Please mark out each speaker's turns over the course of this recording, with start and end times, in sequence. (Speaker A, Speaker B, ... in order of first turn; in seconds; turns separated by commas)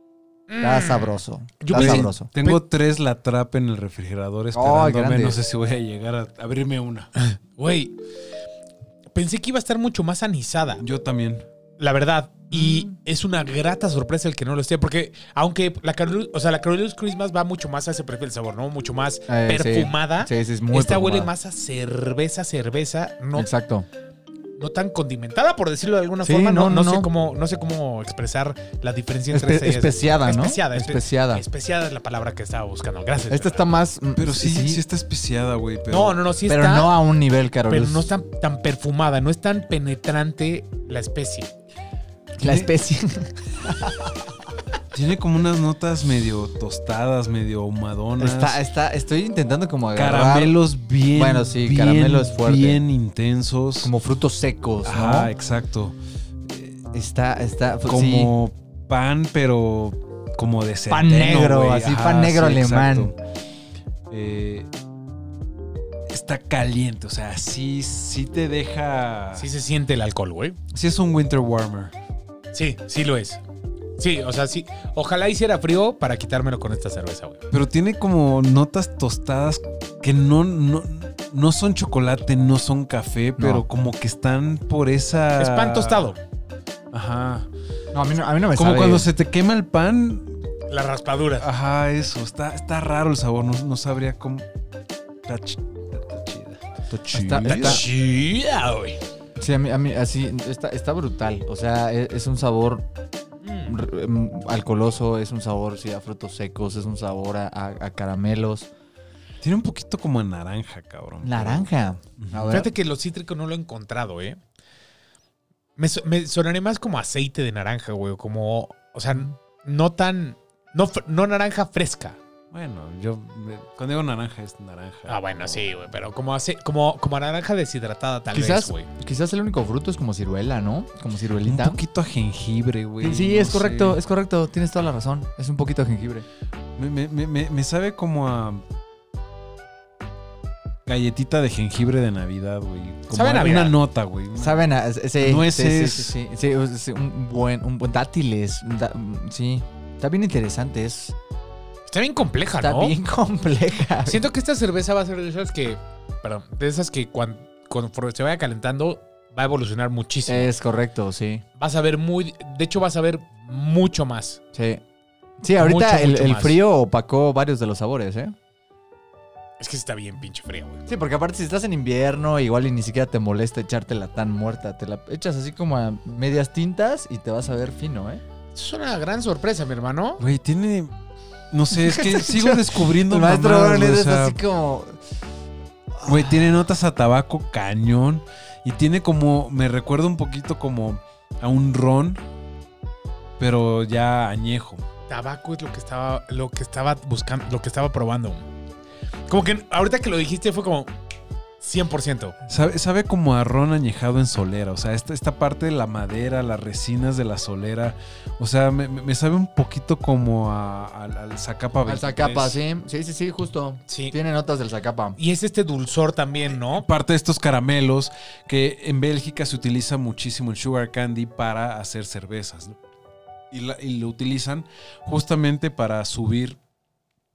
Speaker A: 0.5-2.6, Speaker B: 0.6-2.3, Speaker C: 1.7-7.1, Speaker B: 4.5-5.4, Speaker A: 7.2-8.0, Speaker A: 9.2-10.8, Speaker C: 10.8-11.4, Speaker A: 11.8-23.5, Speaker B: 12.5-12.9, Speaker B: 19.3-21.3, Speaker B: 23.4-23.9, Speaker A: 24.6-33.7, Speaker B: 26.2-27.1, Speaker B: 29.3-31.4, Speaker B: 33.3-34.8, Speaker C: 34.2-36.2, Speaker A: 35.9-37.0, Speaker B: 36.5-38.1, Speaker A: 37.7-41.5, Speaker B: 42.4-44.4, Speaker C: 42.4-42.7, Speaker C: 44.9-48.6, Speaker B: 48.2-50.6, Speaker C: 50.0-53.9, Speaker B: 51.1-52.8, Speaker B: 53.8-55.3, Speaker C: 54.8-56.8, Speaker B: 56.9-58.3, Speaker C: 57.9-63.2, Speaker B: 60.9-63.1, Speaker C: 64.1-64.7, Speaker C: 66.1-69.5, Speaker A: 69.4-70.6, Speaker C: 70.7-71.9, Speaker A: 72.5-73.4, Speaker A: 74.0-77.4, Speaker C: 77.5-86.1, Speaker B: 83.4-83.7, Speaker A: 85.4-86.2, Speaker C: 86.9-87.5, Speaker B: 87.9-89.1, Speaker C: 88.5-90.3, Speaker A: 90.7-91.5, Speaker C: 91.4-94.5, Speaker C: 95.2-97.9, Speaker B: 97.1-97.8, Speaker A: 97.4-99.0, Speaker B: 99.4-102.9, Speaker A: 103.4-103.8, Speaker B: 103.7-108.7, Speaker C: 109.4-112.5, Speaker B: 111.2-112.7, Speaker A: 112.5-114.4, Speaker A: 115.8-122.2, Speaker C: 122.5-125.6, Speaker A: 125.1-128.9, Speaker B: 128.3-131.8, Speaker C: 131.4-134.0, Speaker B: 133.0-136.3, Speaker C: 136.8-138.6, Speaker C: 140.9-146.2, Speaker A: 143.1-143.8, Speaker B: 144.4-151.2, Speaker A: 151.9-153.0, Speaker B: 152.6-154.3, Speaker A: 154.1-160.5, Speaker B: 160.3-161.4, Speaker A: 161.6-164.4, Speaker B: 164.5-164.8, Speaker B: 165.4-168.3, Speaker A: 165.6-166.6, Speaker A: 169.6-170.8, Speaker B: 170.9-178.2, Speaker A: 178.6-180.2, Speaker C: 180.2-180.9, Speaker C: 181.5-184.4, Speaker B: 181.7-185.0, Speaker B: 186.0-186.6, Speaker C: 186.0-192.2, Speaker C: 193.4-194.8, Speaker A: 195.1-198.5, Speaker A: 199.3-200.9, Speaker A: 201.6-202.4, Speaker C: 202.5-212.6, Speaker B: 211.9-215.2, Speaker A: 213.9-214.2, Speaker A: 215.2-216.9, Speaker C: 216.7-222.8, Speaker C: 223.5-226.6